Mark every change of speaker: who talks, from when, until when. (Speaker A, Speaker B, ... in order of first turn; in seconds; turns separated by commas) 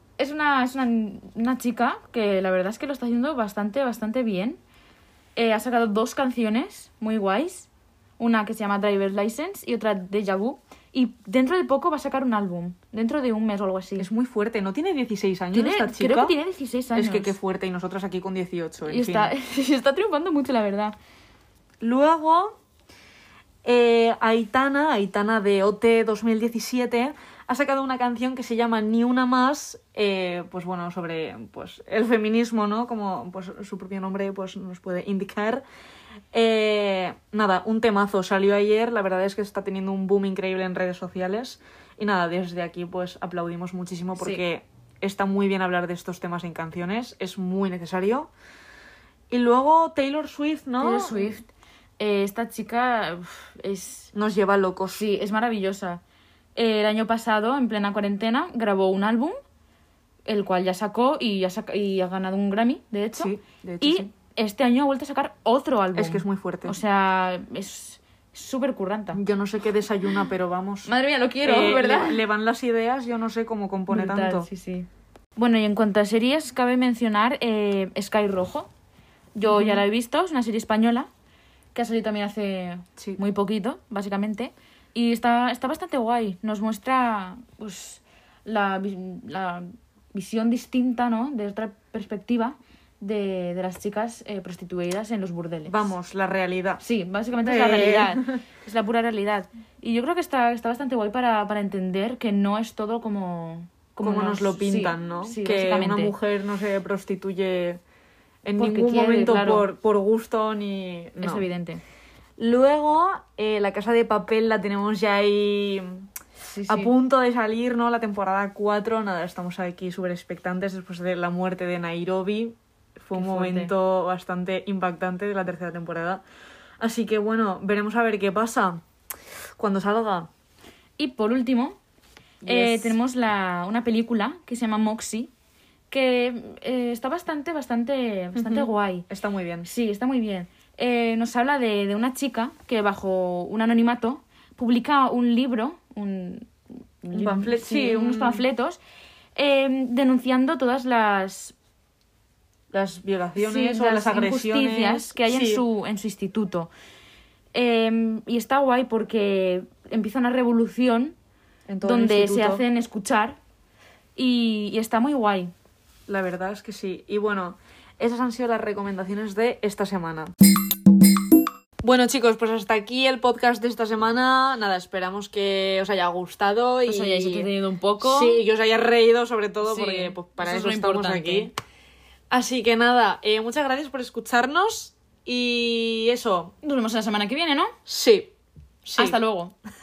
Speaker A: 0.2-4.6, Speaker A: 5.3-14.1, Speaker B: 14.0-16.4, Speaker A: 15.5-17.3, Speaker B: 16.9-19.3, Speaker A: 18.9-20.9, Speaker B: 21.8-22.5, Speaker B: 23.6-35.6, Speaker B: 36.3-48.3, Speaker A: 44.2-44.4, Speaker B: 49.3-51.4, Speaker A: 50.8-54.1, Speaker B: 54.1-55.0, Speaker A: 55.0-56.0, Speaker A: 56.5-59.4, Speaker A: 60.2-69.2, Speaker B: 63.2-64.1, Speaker B: 66.0-66.8, Speaker B: 69.1-70.9, Speaker A: 70.8-72.2, Speaker B: 71.4-74.5, Speaker A: 73.9-78.7, Speaker A: 79.3-81.1, Speaker B: 79.4-79.8, Speaker A: 81.7-95.9, Speaker B: 95.7-96.8, Speaker A: 96.8-106.1, Speaker B: 97.4-98.3, Speaker B: 104.0-107.8, Speaker B: 108.4-111.5, Speaker A: 108.6-109.7, Speaker A: 111.2-111.8, Speaker B: 112.4-116.1, Speaker A: 116.5-116.9, Speaker B: 116.7-126.2, Speaker A: 123.1-123.7, Speaker B: 126.8-128.8, Speaker B: 129.6-130.3, Speaker A: 131.0-131.8, Speaker B: 132.4-132.9, Speaker A: 132.4-135.3, Speaker A: 135.9-139.1, Speaker B: 138.3-139.7, Speaker A: 139.6-148.8, Speaker B: 147.1-148.4, Speaker A: 149.3-151.5, Speaker B: 152.7-155.6, Speaker A: 153.4-156.7, Speaker A: 157.5-161.2, Speaker B: 161.7-162.6, Speaker A: 161.8-163.4, Speaker A: 164.2-165.5, Speaker B: 166.1-170.3, Speaker B: 171.8-177.5, Speaker A: 176.8-178.4, Speaker B: 178.0-181.5, Speaker A: 179.6-181.5, Speaker B: 182.3-186.5, Speaker A: 186.6-187.7, Speaker B: 187.9-188.3, Speaker B: 188.8-189.2, Speaker A: 189.0-189.5